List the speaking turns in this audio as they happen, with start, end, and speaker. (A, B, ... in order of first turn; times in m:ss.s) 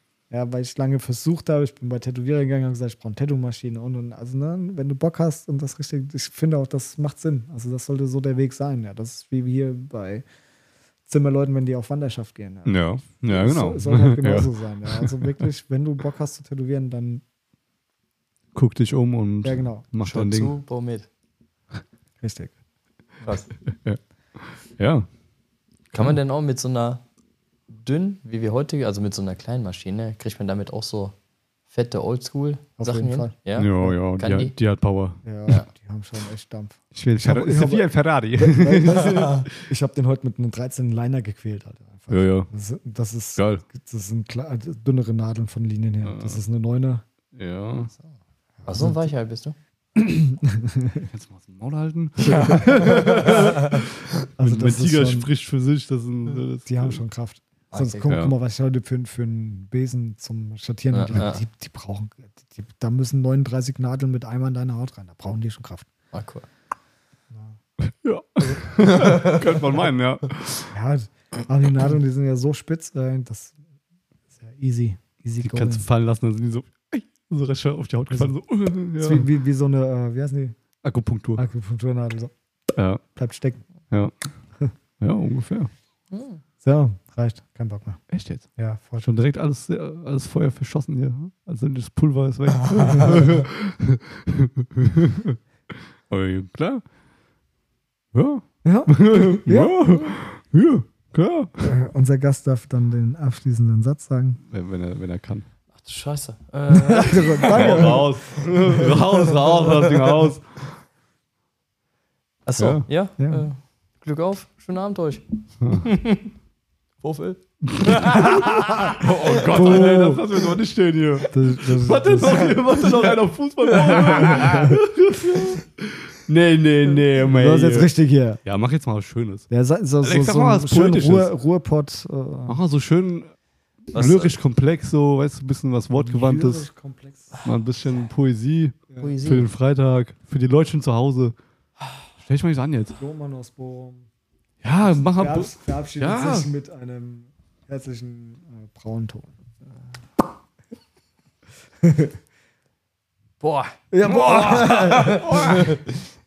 0:00.3-0:10.2 A
0:11.1-0:17.2 A
0:12.7-0:15.5 B
0:18.6-0:20.6 B
0:19.4-0:19.9 A
0:20.0-0:21.1 C
0:22.2-0:22.6 A
0:23.6-0:25.1 B
0:26.0-0:27.0 C
0:27.7-0:31.1 C
0:31.7-0:34.5 C
0:32.8-0:33.3 A
0:33.6-0:35.2 B
0:35.2-0:47.0 A
0:36.9-0:39.6 B
0:42.1-0:42.5 B
0:43.4-0:43.6 B
0:46.0-0:46.4 B
0:47.3-0:47.9 B
0:48.6-0:49.1 A
0:48.7-0:49.6 C
0:50.0-0:51.1 A
0:51.0-0:57.0 B
0:54.4-0:55.3 A
0:56.6-1:05.9 A
0:57.7-0:58.1 C
1:00.9-1:01.4 C
1:06.1-1:06.5 C
1:07.3-1:07.6 A
1:07.8-1:10.7 B
1:08.6-1:09.6 C
1:10.7-1:13.6 A
1:14.4-1:15.8 A
1:15.4-1:19.3 B
1:18.1-1:18.4 A
1:19.0-1:20.6 A
1:20.8-1:21.4 B
1:21.4-1:22.3 A
1:22.8-1:23.0 B
1:23.2-1:23.6 A
1:25.0-1:25.7 B
1:26.1-1:26.4 C
1:26.6-1:28.0 A
1:28.1-1:28.5 B
1:28.6-1:29.1 A
1:29.0-1:36.8 B
1:38.1-1:41.7 B
1:38.6-1:40.0 A
1:41.6-1:44.4 A
1:44.5-1:45.4 B
1:45.8-1:48.0 C
1:46.7-1:48.1 A
1:47.5-1:50.7 B
1:52.4-1:56.3 C
1:52.6-1:52.9 B
1:53.2-1:53.5 A
1:55.6-1:55.9 B
1:57.0-2:00.0 C
1:57.6-2:07.9 B
1:59.5-2:00.2 A
2:01.3-2:02.6 A
2:03.8-2:04.5 C
2:04.0-2:04.8 A
2:07.2-2:08.4 A
2:08.4-2:09.5 B
2:09.5-2:12.6 A
2:10.0-2:11.3 B
2:12.5-2:13.3 B
2:13.9-2:14.4 C
2:14.0-2:16.7 B
2:16.0-2:17.3 A
2:17.4-2:21.4 B
2:19.0-2:19.5 C
2:22.2-2:23.0 B
2:23.0-2:24.1 A
2:24.6-2:26.5 B
2:24.8-2:29.4 A
2:31.8-2:32.1 A
2:33.4-2:35.9 C
2:33.9-2:35.5 A
2:35.2-2:35.8 B